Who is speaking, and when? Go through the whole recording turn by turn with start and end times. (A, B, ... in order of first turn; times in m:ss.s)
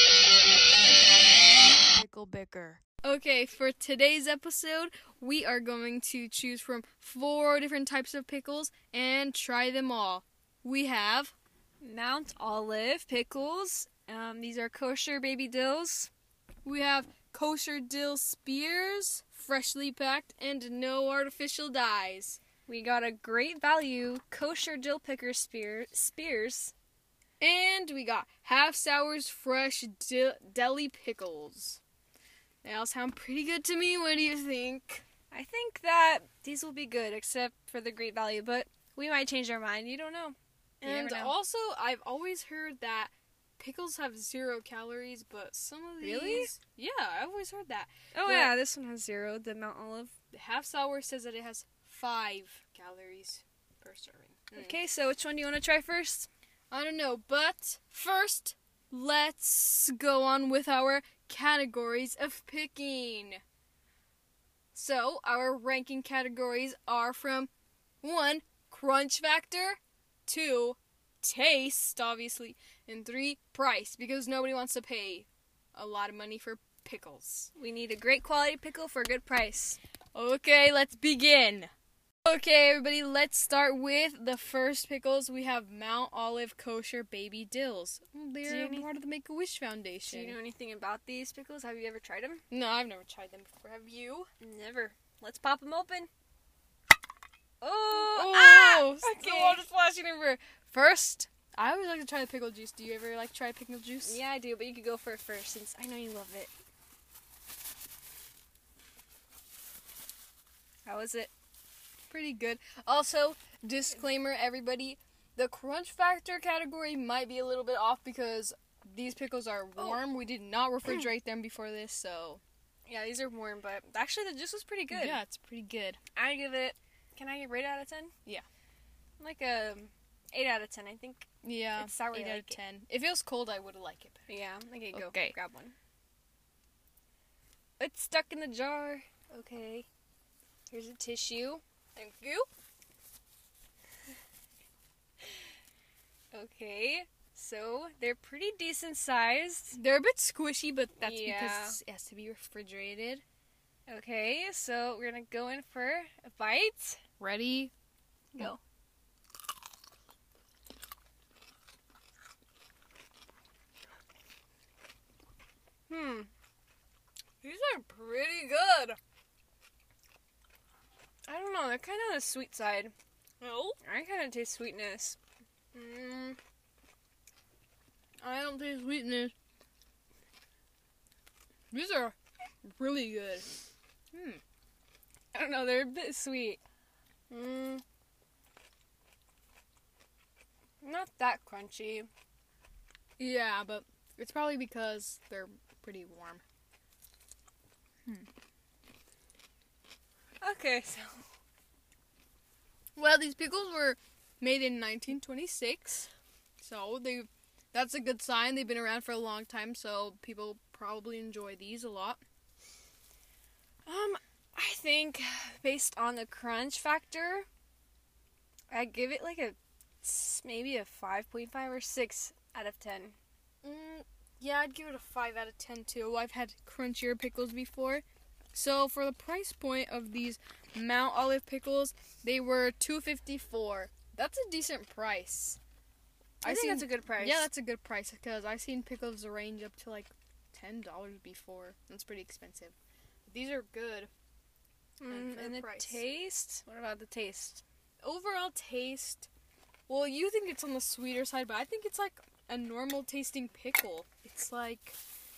0:01.9-0:11.3 A
0:11.8-0:16.1 B
0:16.6-0:22.4 A
0:22.7-0:26.7 B
0:27.4-0:31.8 A
0:32.6-0:35.0 A
0:35.3-0:41.4 B
0:40.8-0:48.6 A
0:46.0-0:46.5 B
0:48.1-0:50.1 B
0:50.3-0:54.8 A
0:54.6-0:56.3 B
0:56.7-1:03.4 A
1:04.7-1:07.5 A
1:08.0-1:17.5 A
1:17.6-1:19.8 B
1:20.1-1:21.7 A
1:22.2-1:30.4 A
1:28.4-1:28.9 B
1:30.1-1:32.4 B
1:32.5-1:34.3 A
1:34.4-1:36.1 B
1:37.6-1:39.7 B
1:37.9-1:44.2 A
1:44.0-1:46.5 B
1:50.8-1:51.3 B
1:52.1-2:02.4 A
2:02.8-2:05.2 B
2:04.9-2:06.0 A
2:06.1-2:08.1 B
2:09.2-2:12.6 B
2:11.4-2:14.3 A
2:14.3-2:15.7 B
2:14.9-2:15.3 A
2:17.8-2:19.9 B
2:20.7-2:21.6 B
2:22.0-2:22.5 A
2:26.3-2:29.8 B
2:29.7-2:33.2 A
2:31.0-2:31.8 B
2:33.9-2:37.0 B
2:37.2-2:37.7 A
2:38.3-2:38.6 B
2:45.9-2:46.3 B
2:47.4-2:49.0 A
2:51.3-2:52.9 B
2:53.4-2:53.8 A
2:53.8-2:55.2 B
2:55.7-2:56.4 A
2:58.2-2:59.3 A
3:01.7-3:02.1 A
3:02.7-3:03.5 A
3:04.1-3:04.4 A
3:05.3-3:06.6 B
3:07.3-3:07.8 B
3:10.8-3:12.1 B
3:13.2-3:16.4 A
3:20.4-3:21.2 B
3:23.0-3:26.1 A
3:26.6-3:32.2 A
3:33.8-3:37.4 B
3:38.7-3:43.2 B
3:43.6-3:55.6 A
3:56.4-3:57.5 B
3:56.4-4:02.7 A
4:03.3-4:04.1 A
4:05.0-4:07.6 B
4:05.1-4:06.0 A
4:08.0-4:09.3 A
4:09.9-4:15.0 A